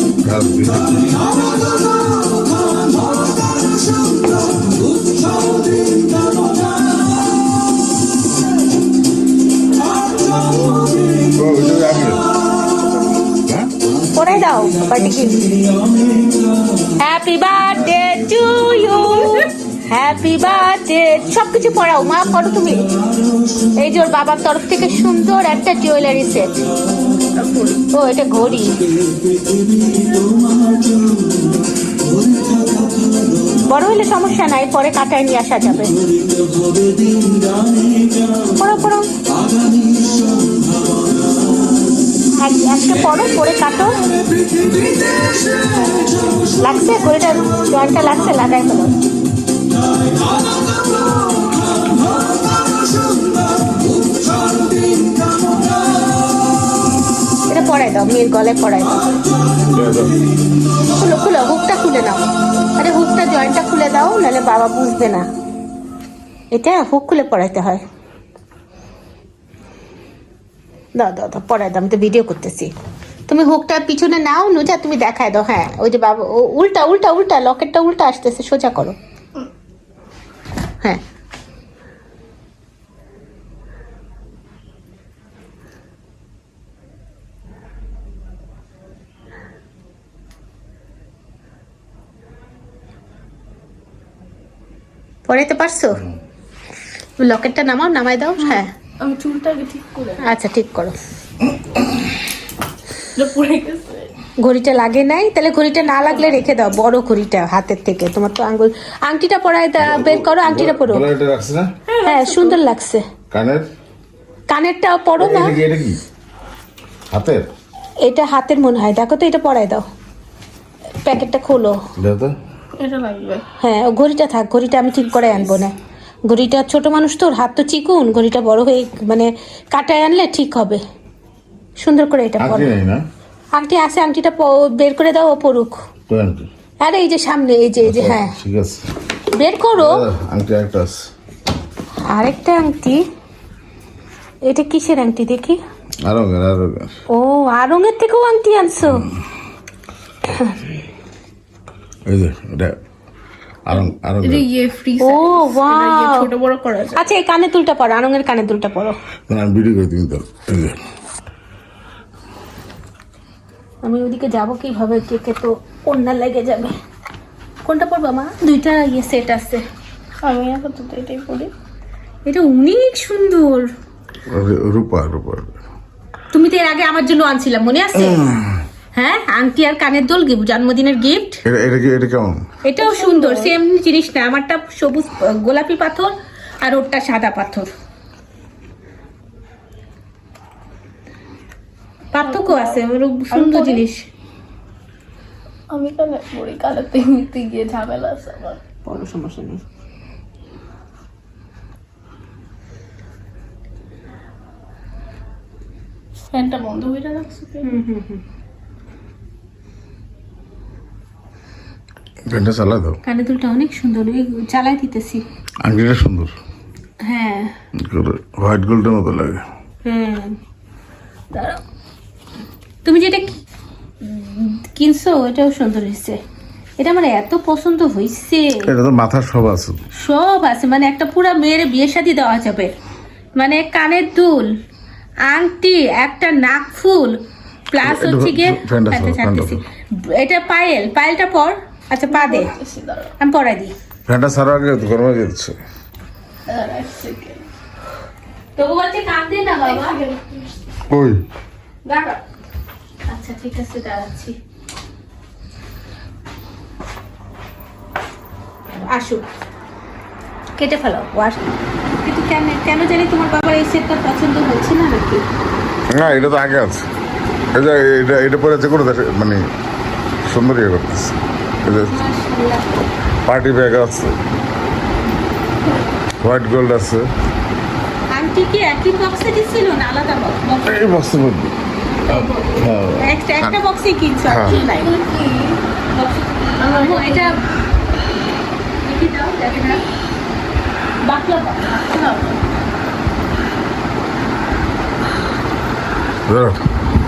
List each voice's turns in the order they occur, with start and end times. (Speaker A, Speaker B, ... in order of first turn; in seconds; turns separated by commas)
Speaker A: 0.2-1.1, Speaker A: 11.3-12.2, Speaker B: 14.1-15.4, Speaker B: 16.9-22.9, Speaker B: 23.8-26.5, Speaker C: 27.3-27.8, Speaker B: 27.9-28.8, Speaker B: 33.6-36.0, Speaker B: 38.5-39.0, Speaker B: 42.4-44.0, Speaker B: 46.6-48.9, Speaker B: 57.5-59.0, Speaker A: 59.7-60.1, Speaker B: 60.9-62.2, Speaker B: 62.8-65.2, Speaker B: 66.5-67.8, Speaker B: 71.0-72.7, Speaker B: 73.3-79.0, Speaker B: 95.3-96.0, Speaker B: 97.2-98.7, Speaker C: 98.4-100.4, Speaker B: 100.2-101.0, Speaker C: 103.2-104.1, Speaker B: 104.4-111.1, Speaker A: 109.8-111.7, Speaker C: 111.9-112.6, Speaker B: 112.0-113.0, Speaker A: 113.3-113.7, Speaker B: 114.5-115.6, Speaker A: 115.2-116.0, Speaker A: 117.1-117.5, Speaker B: 118.0-119.8, Speaker B: 121.0-121.8, Speaker A: 122.0-122.3, Speaker C: 122.8-123.4, Speaker B: 123.6-125.7, Speaker B: 126.3-130.8, Speaker B: 131.8-132.7, Speaker A: 132.4-133.0, Speaker B: 133.5-135.8, Speaker A: 136.1-136.5, Speaker B: 136.8-138.3, Speaker A: 137.8-138.8, Speaker B: 139.3-140.0, Speaker A: 139.8-141.0, Speaker B: 142.1-143.0, Speaker B: 144.4-145.6, Speaker A: 146.0-146.9, Speaker B: 147.1-149.1, Speaker B: 150.3-150.6, Speaker A: 152.1-152.8, Speaker A: 153.7-154.4, Speaker C: 154.2-157.1, Speaker B: 155.0-156.3, Speaker B: 156.9-159.0, Speaker A: 159.3-160.8, Speaker B: 163.8-166.7, Speaker B: 167.6-169.6, Speaker C: 170.2-171.5, Speaker B: 172.2-173.7, Speaker A: 174.3-175.5, Speaker B: 176.3-178.3, Speaker A: 178.0-178.6, Speaker B: 178.9-181.4, Speaker A: 181.4-182.4, Speaker B: 182.6-187.7, Speaker C: 182.8-183.5, Speaker B: 192.1-194.0, Speaker C: 192.2-193.8, Speaker C: 195.7-198.6, Speaker B: 198.8-199.6, Speaker C: 206.3-207.7, Speaker B: 207.6-208.2, Speaker A: 212.3-213.0, Speaker B: 213.0-215.2, Speaker A: 215.6-216.3, Speaker B: 217.0-217.5, Speaker A: 217.7-219.4, Speaker B: 219.8-220.4, Speaker B: 221.3-221.6, Speaker B: 222.8-223.3, Speaker B: 224.0-226.2, Speaker B: 226.8-228.7, Speaker A: 228.6-229.8, Speaker B: 230.0-232.7, Speaker B: 233.4-234.5, Speaker B: 235.3-237.2, Speaker B: 237.7-242.5, Speaker A: 237.8-239.6, Speaker C: 242.1-243.1, Speaker B: 243.2-243.7, Speaker A: 244.1-245.6, Speaker C: 246.5-247.4, Speaker B: 248.6-250.0, Speaker C: 249.6-250.4, Speaker A: 250.9-251.2, Speaker C: 251.8-252.2, Speaker B: 253.1-254.3, Speaker B: 258.9-259.2, Speaker B: 260.6-261.4, Speaker B: 262.0-265.2, Speaker A: 265.9-266.8, Speaker A: 267.5-269.4, Speaker A: 270.3-272.0, Speaker B: 271.8-272.7, Speaker A: 273.2-274.2, Speaker A: 276.2-277.1, Speaker B: 278.1-280.8, Speaker A: 280.6-281.6, Speaker B: 282.1-284.9, Speaker A: 282.5-283.6, Speaker A: 284.3-284.6, Speaker C: 284.4-285.6, Speaker B: 285.9-287.4, Speaker C: 286.6-287.4, Speaker B: 288.8-289.8, Speaker B: 291.1-292.0, Speaker C: 291.9-292.4, Speaker A: 296.3-296.6